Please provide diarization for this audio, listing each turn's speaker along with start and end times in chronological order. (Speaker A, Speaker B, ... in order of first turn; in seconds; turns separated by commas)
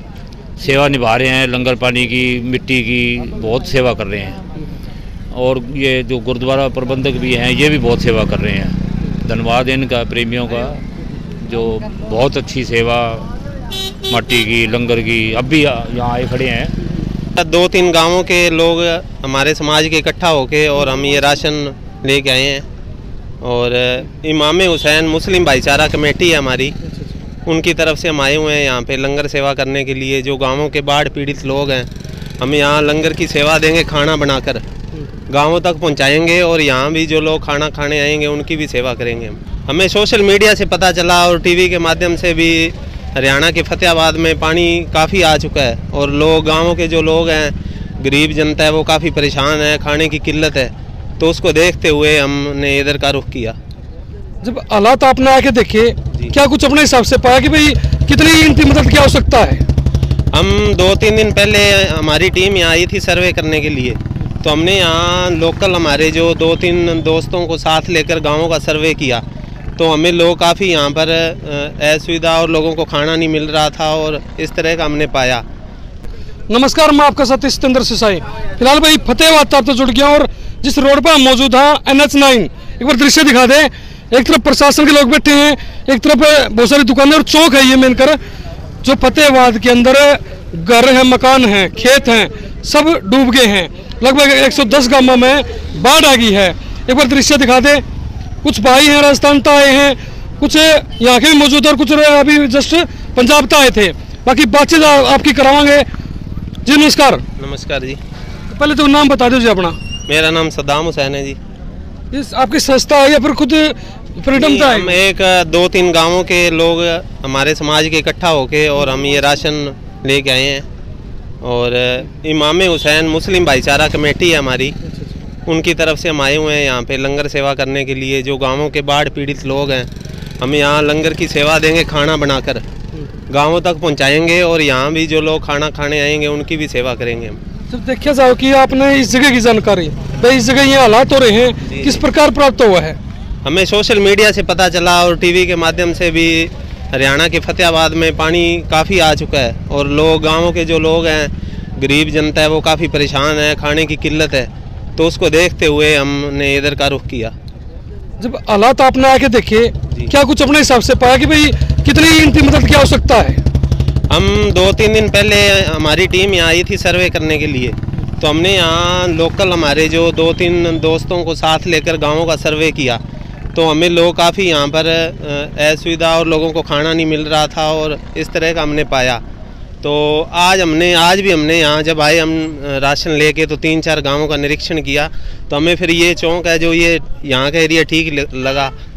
Speaker A: 0.6-4.4, Speaker A: 5.3-10.8, Speaker A: 11.4-13.3, Speaker A: 14.1-16.8, Speaker B: 17.4-22.6, Speaker B: 23.4-26.8, Speaker B: 27.4-31.9, Speaker B: 32.4-34.6, Speaker B: 35.3-53.5, Speaker C: 54.4-59.6, Speaker B: 60.3-69.2, Speaker B: 69.8-75.4, Speaker C: 76.5-88.2, Speaker C: 88.8-97.8, Speaker C: 98.4-105.8, Speaker C: 106.7-107.2, Speaker B: 107.4-108.0, Speaker C: 108.5-109.8, Speaker B: 110.1-111.4, Speaker C: 112.1-114.9, Speaker B: 114.3-120.7, Speaker B: 121.4-124.8, Speaker B: 125.5-129.9, Speaker B: 130.4-132.6, Speaker B: 133.3-137.4, Speaker C: 137.7-143.0, Speaker B: 141.7-142.0, Speaker B: 143.4-157.3, Speaker C: 158.2-163.4, Speaker B: 164.1-173.0, Speaker B: 173.5-179.2, Speaker B: 179.8-188.7